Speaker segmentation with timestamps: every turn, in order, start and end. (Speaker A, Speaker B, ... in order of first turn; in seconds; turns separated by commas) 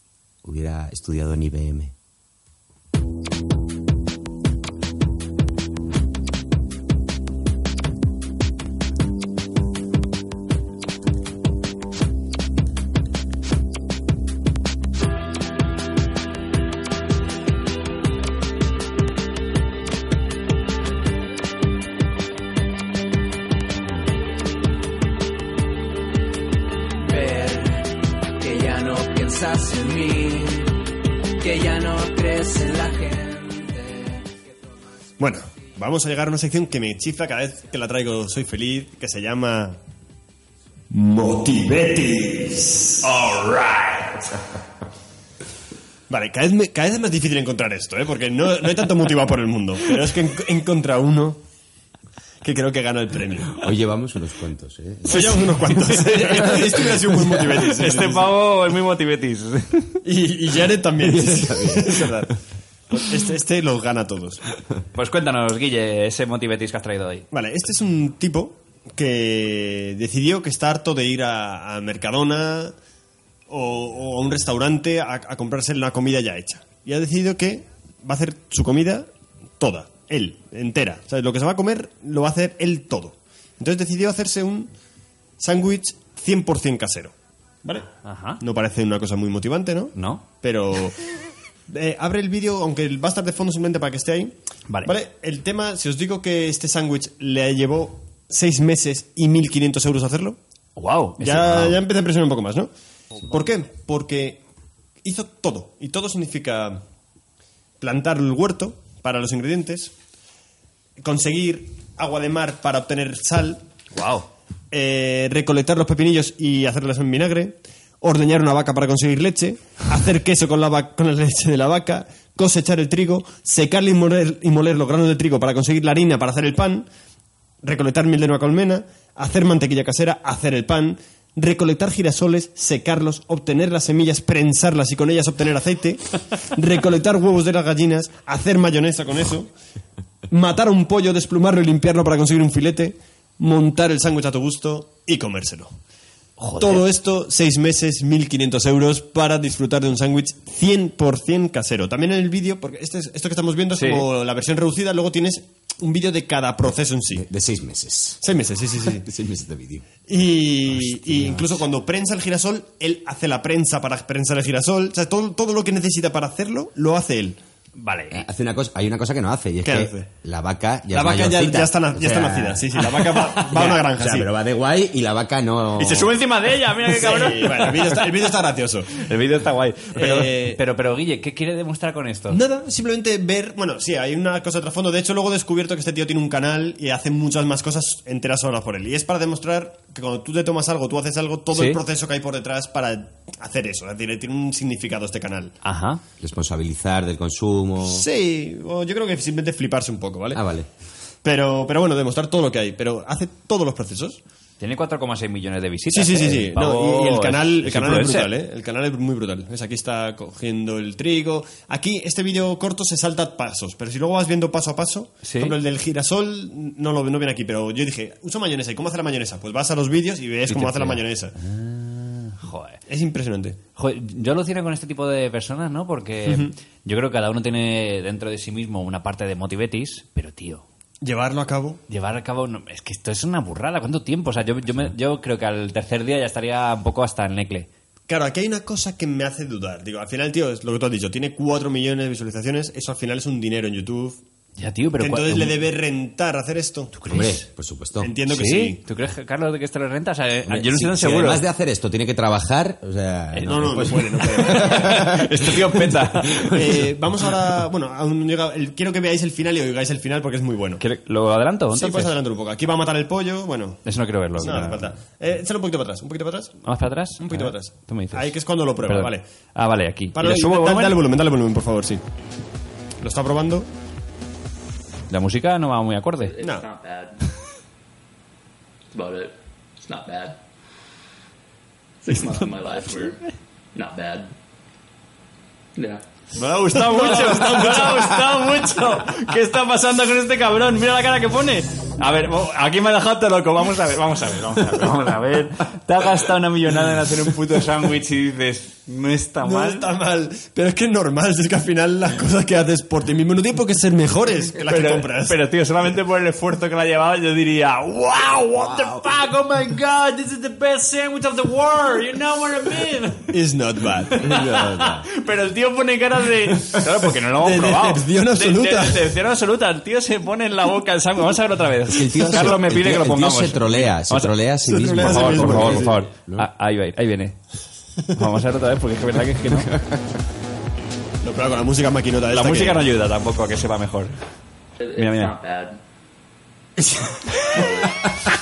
Speaker A: 0.4-1.9, Speaker B: 27.2-27.4, Speaker B: 28.6-30.3, Speaker B: 31.5-33.7, Speaker C: 35.2-39.8, Speaker C: 40.9-44.1, Speaker D: 43.1-43.8, Speaker C: 46.1-51.4, Speaker C: 52.4-53.6, Speaker A: 53.6-55.5, Speaker C: 55.1-58.3, Speaker D: 55.9-56.8, Speaker D: 57.4-60.0, Speaker C: 60.0-62.4, Speaker A: 61.0-62.3, Speaker C: 62.9-64.4, Speaker D: 64.9-67.3, Speaker C: 67.3-72.8, Speaker C: 73.5-79.1, Speaker C: 79.6-84.7, Speaker C: 85.4-87.1, Speaker D: 88.0-88.4, Speaker C: 88.4-91.0, Speaker D: 90.0-90.2, Speaker C: 91.7-94.3, Speaker C: 94.8-100.4, Speaker D: 100.8-101.8, Speaker C: 101.2-102.7, Speaker C: 103.2-104.4, Speaker C: 105.0-106.8, Speaker C: 107.8-109.9, Speaker C: 111.0-113.6, Speaker D: 113.9-114.3, Speaker C: 114.7-126.9, Speaker C: 127.6-139.5, Speaker C: 140.3-145.7, Speaker D: 146.4-146.8, Speaker C: 146.6-157.2, Speaker D: 153.8-154.1, Speaker A: 157.1-158.2, Speaker C: 158.2-159.1, Speaker A: 158.8-159.9, Speaker C: 160.1-167.4, Speaker A: 160.7-161.6, Speaker D: 167.8-168.3, Speaker A: 168.1-172.9, Speaker C: 169.6-170.1, Speaker C: 170.9-174.3, Speaker D: 173.1-173.5, Speaker A: 173.5-176.1, Speaker D: 175.8-178.1, Speaker C: 176.9-179.1, Speaker D: 178.9-182.4, Speaker C: 179.9-180.6, Speaker C: 182.3-195.6, Speaker D: 191.5-191.8, Speaker D: 195.6-196.0, Speaker A: 196.2-198.1, Speaker C: 197.8-200.4, Speaker A: 200.3-200.7, Speaker C: 201.2-204.2, Speaker D: 204.6-208.3, Speaker C: 205.9-221.3, Speaker D: 215.2-215.6, Speaker D: 220.5-222.8, Speaker C: 222.9-223.6, Speaker D: 223.8-230.7, Speaker C: 226.3-226.5, Speaker C: 231.0-231.8, Speaker D: 231.9-237.7, Speaker C: 238.1-244.2, Speaker D: 244.6-245.6, Speaker C: 245.0-246.9, Speaker D: 246.9-247.5, Speaker A: 247.1-248.1, Speaker C: 248.0-248.8, Speaker D: 248.3-251.4, Speaker A: 250.5-256.9, Speaker D: 253.3-256.5, Speaker C: 253.4-255.0, Speaker C: 256.5-260.8, Speaker D: 260.8-262.1, Speaker C: 261.8-263.9, Speaker D: 263.9-264.9, Speaker C: 264.4-266.6, Speaker D: 266.6-268.3, Speaker C: 267.2-269.2, Speaker D: 268.9-271.0, Speaker C: 270.1-272.0, Speaker C: 273.0-273.7, Speaker D: 275.1-276.4, Speaker E: 276.2-277.2, Speaker E: 278.9-280.4, Speaker E: 282.0-283.2, Speaker D: 282.3-283.3, Speaker E: 283.8-284.3, Speaker E: 285.8-286.1, Speaker D: 286.4-299.9, Speaker C: 286.7-288.2, Speaker C: 299.4-305.4, Speaker D: 304.7-313.3, Speaker C: 313.3-314.2, Speaker A: 314.2-315.1, Speaker D: 314.2-327.4, Speaker C: 317.4-319.1, Speaker A: 321.9-326.5, Speaker C: 324.7-326.0, Speaker D: 328.1-329.8, Speaker C: 331.2-332.8, Speaker D: 332.3-334.1, Speaker E: 334.8-335.8, Speaker D: 335.0-335.3, Speaker C: 336.8-337.4, Speaker E: 337.5-338.0